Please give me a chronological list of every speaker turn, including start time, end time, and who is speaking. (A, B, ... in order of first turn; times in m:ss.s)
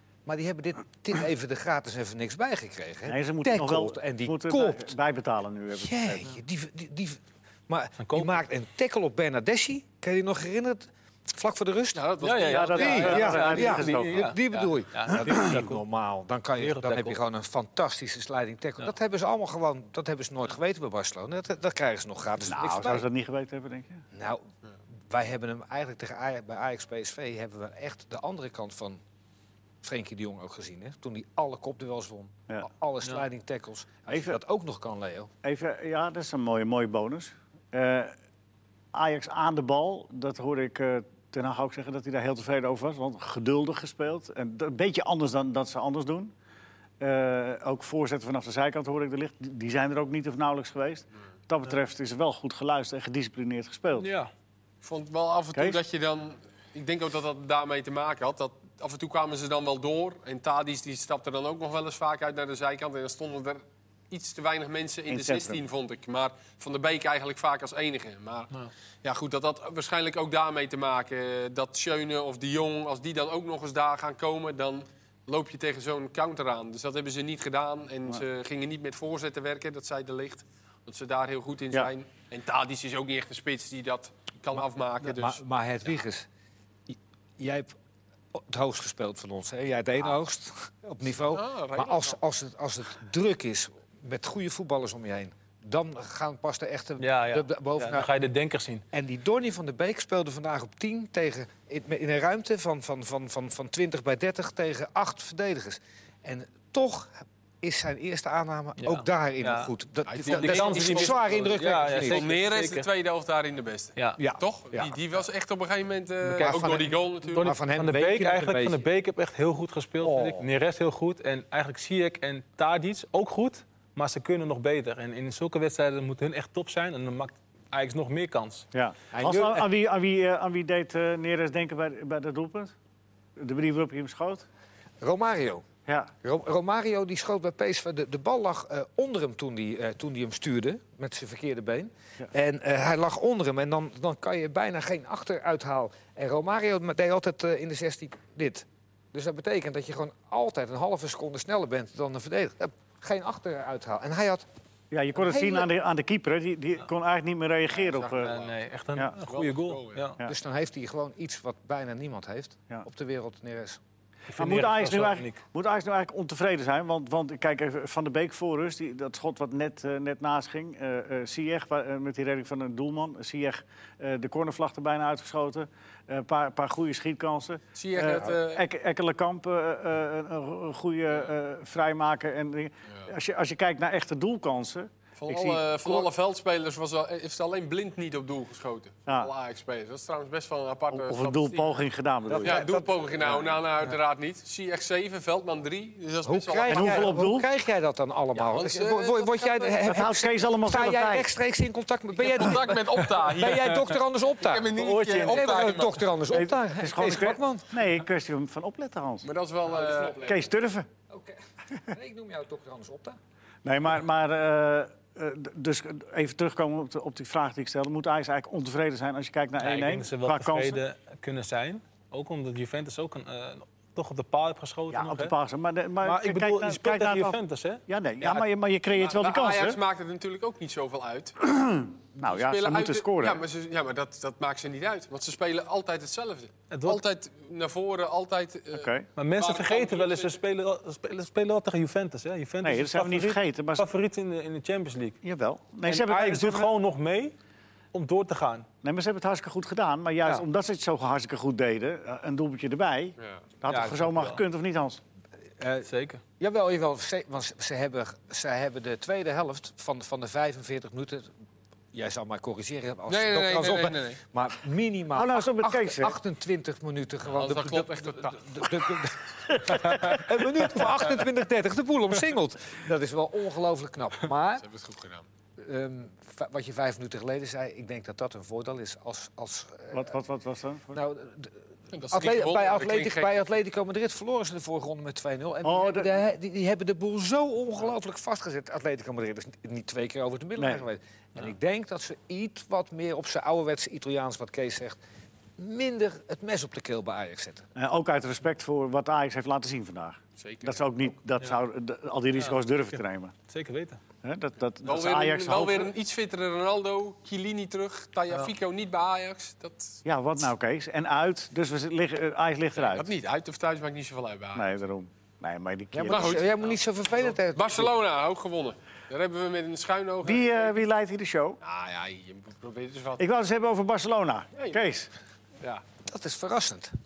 0:00.3-0:04.9 A
0:03.1-0:06.3 B
0:05.8-0:12.0 A
0:08.0-0:08.4 C
0:12.0-0:13.6 D
0:12.2-0:15.8 C
0:12.4-0:14.3 B
0:12.7-0:23.1 A
0:16.6-0:17.2 C
0:22.5-0:24.0 B
0:24.1-0:24.4 A
0:25.1-0:29.0 A
0:29.8-0:35.3 A
0:34.1-0:34.4 B
0:35.4-0:38.1 B
0:38.9-0:46.3 B
0:47.0-0:54.1 B
0:54.0-0:54.3 C
0:54.8-1:08.5 D
0:55.5-0:55.8 B
1:05.1-1:05.6 B
1:09.0-1:25.4 D
1:25.0-1:26.3 A
1:26.9-1:27.7 A
1:28.3-1:38.1 A
1:31.3-1:32.2 D
1:37.0-1:38.8 C
1:38.9-1:52.2 A
1:48.8-1:49.7 C
1:50.1-1:57.5 D
1:50.3-1:52.9 C
1:54.2-1:55.0 A
1:56.2-2:08.6 C
1:56.4-1:58.8 A
2:00.0-2:00.5 A
2:08.7-2:12.7 B
2:09.1-2:09.7 A
2:13.4-2:14.4 B
2:15.0-2:15.7 A
2:16.2-2:34.4 A
2:34.9-2:38.3 B
2:35.2-2:35.7 A
2:37.7-2:38.6 D
2:38.2-2:40.2 C
2:39.2-2:40.0 D
2:40.2-2:43.8 A
2:44.3-2:45.4 C
2:44.4-3:06.1 B
2:57.8-2:58.6 D
3:05.2-3:11.8 D
3:10.9-3:12.6 B
3:12.3-3:13.4 A
3:12.4-3:17.1 D
3:16.2-3:27.7 A
3:16.7-3:17.5 B
3:18.4-3:19.9 D
3:19.9-3:21.3 B
3:22.2-3:23.8 D
3:24.4-3:26.1 D
3:24.8-3:25.9 C
3:26.3-3:29.3 B
3:29.2-3:30.4 D
3:29.7-3:30.3 A
3:30.1-3:30.9 B
3:31.1-3:33.2 A
3:33.6-3:40.8 B
3:39.6-3:45.3 C
3:44.9-3:49.8 B
3:46.0-3:47.8 C
3:48.2-3:51.4 D
3:51.4-3:53.4 B
3:52.2-4:00.4 D
3:56.7-3:57.0 C
3:58.7-3:59.1 B
3:59.2-4:05.2 C
4:02.6-4:03.9 B
4:05.2-4:06.7 B
4:05.9-4:07.3 C
4:07.9-4:08.7 C
4:08.8-4:15.0 B
4:13.7-4:14.4 C
4:15.6-4:15.9 A
4:15.8-4:16.2 C
4:16.4-4:21.3 A
4:21.9-4:34.7 A
4:23.1-4:24.2 D
4:25.1-4:26.2 B
4:27.3-4:28.9 D
4:34.6-4:35.3 D
4:35.6-4:40.1 A
4:39.9-4:41.0 B
4:40.9-4:41.6 A
4:41.9-4:43.3 D
4:42.1-4:55.0 A
4:45.6-4:46.1 B
4:50.6-4:50.8 B
4:55.6-4:57.7 A
4:57.8-5:03.4 B
5:00.4-5:00.9 D
5:03.5-5:04.0 C
5:04.2-5:05.9 B
5:04.8-5:10.0 D
5:10.0-5:13.1 B
5:12.8-5:14.7 D
5:14.6-5:16.4 B
5:15.9-5:17.9 A
5:16.1-5:20.8 D
5:20.2-5:21.6 B
5:21.6-5:23.2 D
5:23.2-5:25.1 B
5:24.6-5:24.9 D
5:26.1-5:26.9 A